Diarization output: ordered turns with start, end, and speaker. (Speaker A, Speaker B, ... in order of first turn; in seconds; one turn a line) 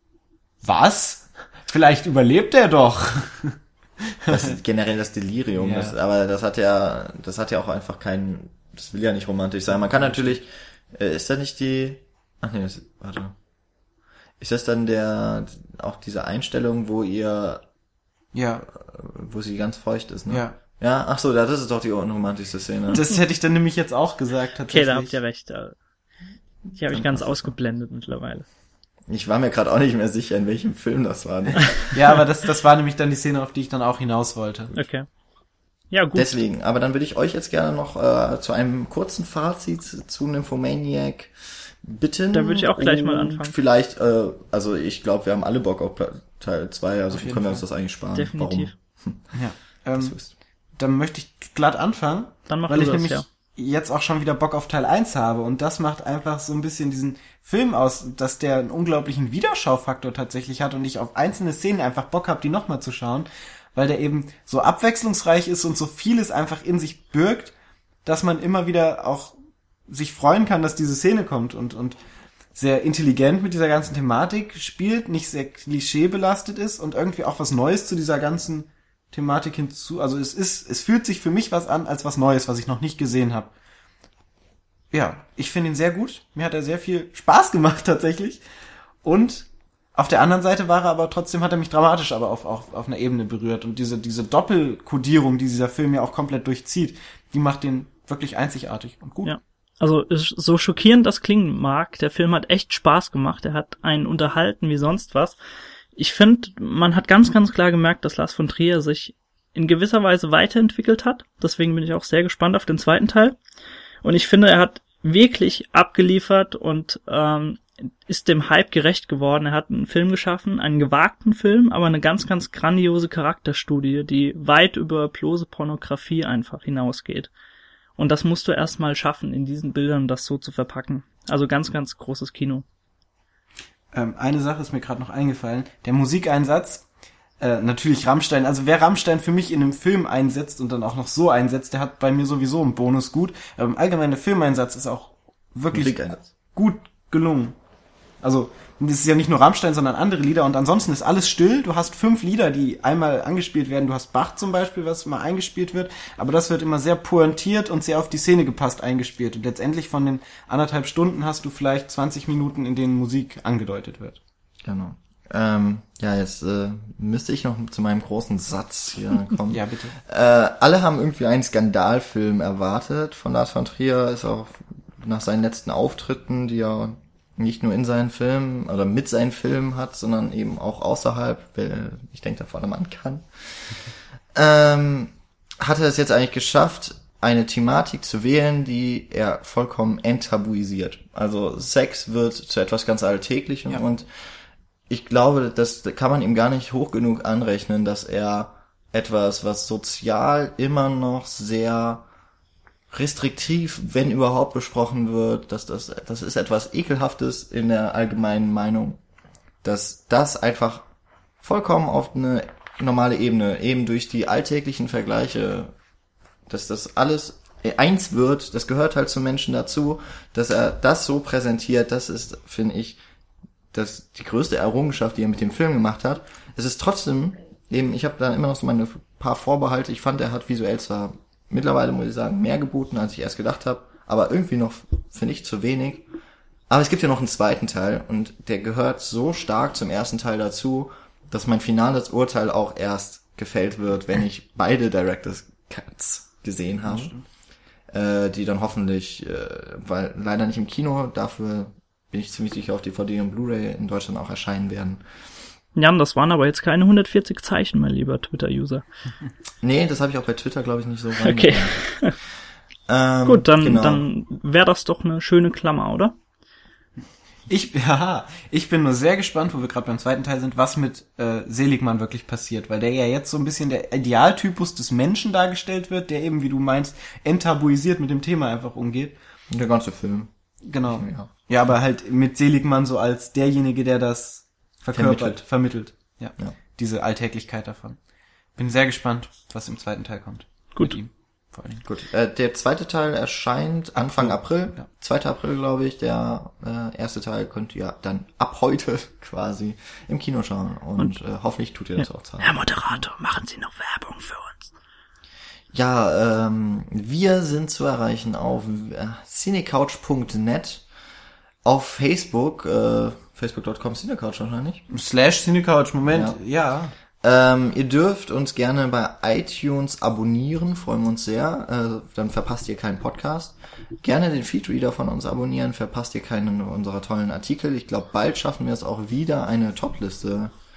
Speaker A: 0.6-3.6
Speaker A: 4.1-4.5
Speaker B: 4.3-13.3
Speaker A: 5.5-5.9
Speaker A: 9.9-10.3
Speaker B: 14.4-17.6
Speaker A: 18.3-18.6
Speaker B: 18.7-23.0
Speaker A: 20.3-20.6
Speaker A: 22.9-25.2
Speaker C: 24.7-25.8
Speaker C: 26.7-28.4
Speaker B: 26.9-27.5
Speaker B: 29.1-32.0
Speaker A: 31.9-34.7
Speaker C: 34.7-35.1
Speaker C: 35.9-36.4
Speaker B: 36.1-49.3
Speaker C: 42.3-43.5
Speaker A: 47.1-47.6
Speaker C: 48.1-48.7
Speaker A: 49.3-50.2
Speaker B: 50.0-50.3
Speaker A: 50.8-67.5
Speaker C: 52.5-53.2
Speaker A: 68.0-69.3
Speaker A: 69.9-72.0
Speaker A: 72.5-83.5
Speaker A: 84.9-88.4
Speaker A: 89.0-99.3
Speaker C: 99.2-105.4
Speaker C: 106.0-113.4
Speaker C: 114.0-127.3
Speaker C: 128.0-132.6
Speaker A: 133.9-136.8
Speaker A: 137.4-147.5
Speaker B: 145.7-146.2
Speaker A: 148.2-164.2
Speaker B: 164.6-194.1
Speaker A: 169.5-169.9
Speaker B: 194.9-202.1
Speaker B: 202.9-209.0
Speaker B: 209.6-210.9
Speaker B: 211.4-215.7
Speaker B: 216.5-223.0
Speaker B: 223.7-236.0
Speaker B: 236.7-247.1
Speaker A: 246.8-247.2
Speaker B: 247.9-255.0
Speaker C: 255.8-258.8
Speaker B: 259.6-261.9
Speaker C: 261.2-262.1
Speaker B: 262.9-264.0
Speaker C: 263.2-266.1
Speaker A: 267.5-279.1
Speaker B: 279.5-280.3
Speaker A: 280.6-288.0
Speaker B: 280.9-281.3
Speaker B: 284.9-285.4
Speaker A: 288.6-291.8
Speaker B: 291.8-302.6
Speaker A: 293.9-294.9
Speaker C: 302.0-304.7
Speaker B: 305.7-310.8
Speaker B: 311.6-314.8
Speaker A: 314.9-316.9
Speaker B: 316.1-316.4
Speaker B: 317.2-330.5